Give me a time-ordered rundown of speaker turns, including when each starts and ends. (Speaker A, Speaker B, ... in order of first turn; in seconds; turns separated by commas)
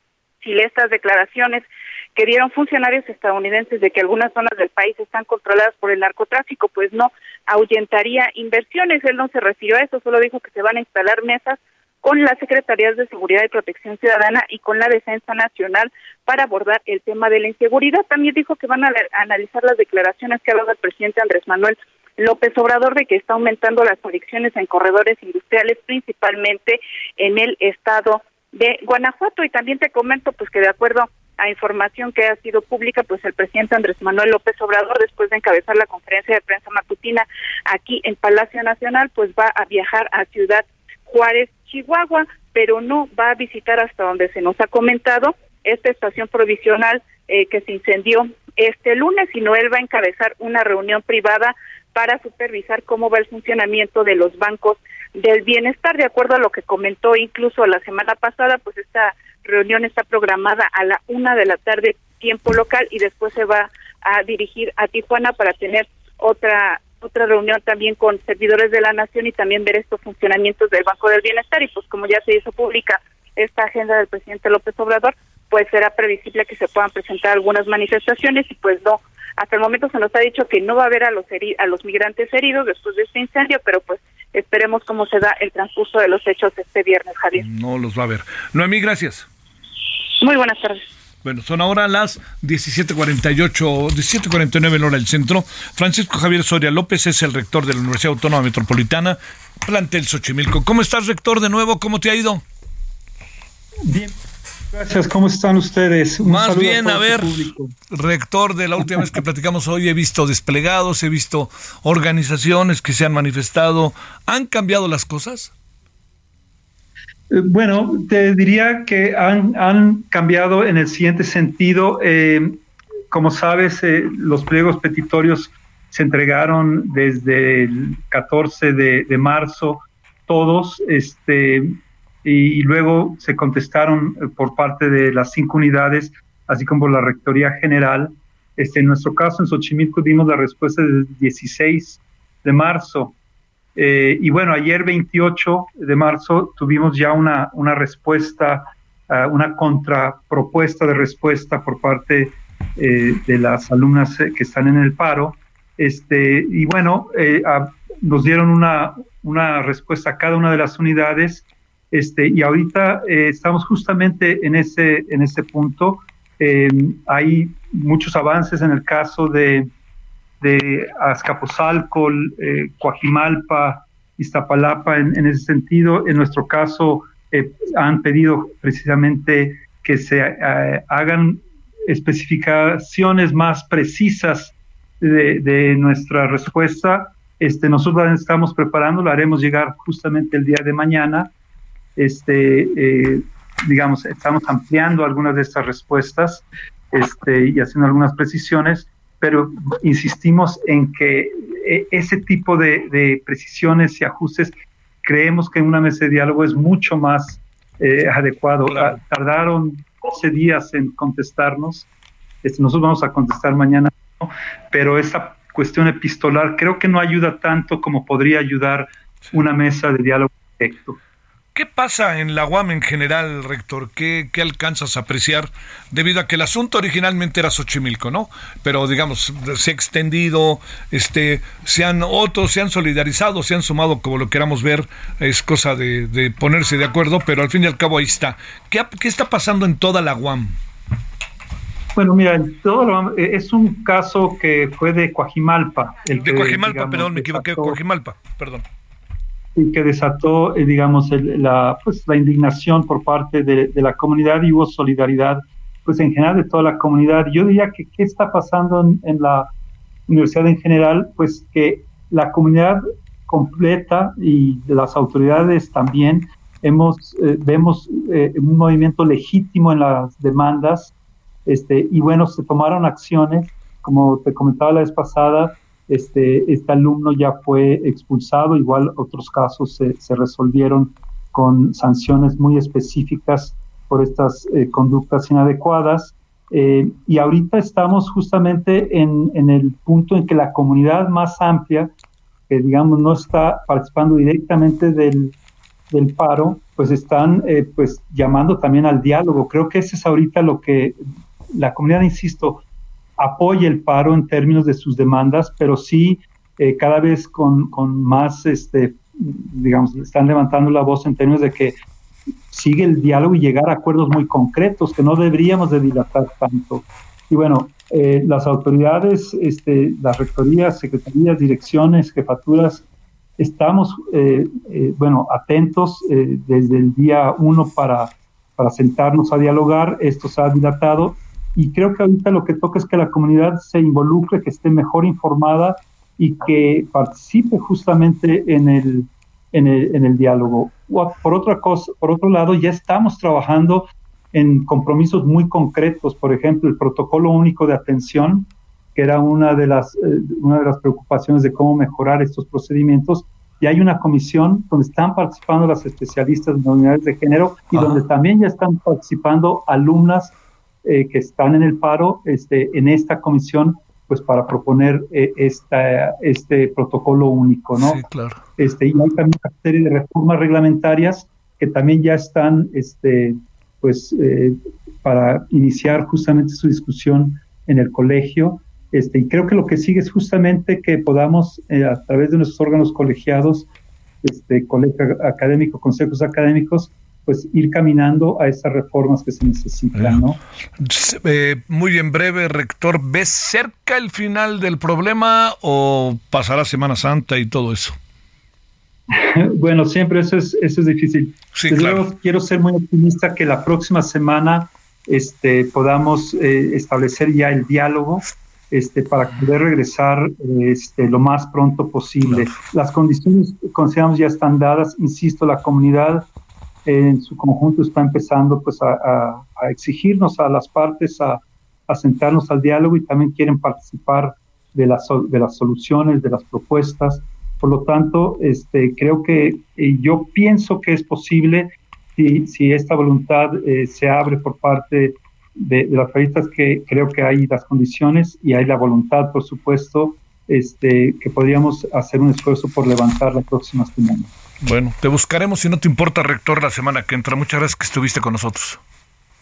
Speaker A: 0.4-87.5, Speaker B: 87.4-89.3, Speaker A: 90.2-90.9, Speaker B: 91.2-102.4, Speaker C: 103.9-104.1, Speaker C: 104.7-107.7, Speaker B: 106.2-115.5, Speaker C: 117.3-122.6, Speaker C: 123.1-143.2, Speaker C: 143.8-169.7, Speaker C: 170.4-191.3, Speaker C: 192.0-211.9, Speaker B: 208.7-209.0, Speaker C: 212.4-221.0, Speaker B: 221.6-240.6, Speaker C: 242.0-247.8, Speaker B: 246.2-248.7, Speaker C: 249.6-259.5, Speaker C: 260.1-270.9, Speaker C: 271.5-291.9, Speaker C: 292.5-295.4, Speaker C: 295.9-301.0, Speaker C: 301.5-302.6, Speaker C: 303.2-311.8, Speaker C: 312.5-322.8, Speaker C: 323.4-368.0, Speaker B: 357.7-358.0, Speaker B: 367.8-368.4, Speaker C: 368.6-383.7, Speaker C: 384.2-390.4, Speaker B: 390.0-390.2, Speaker B: 390.8-398.0, Speaker C: 399.1-416.3, Speaker B: 401.6-402.1, Speaker B: 412.2-412.6, Speaker C: 416.9-444.3, Speaker B: 444.6-448.8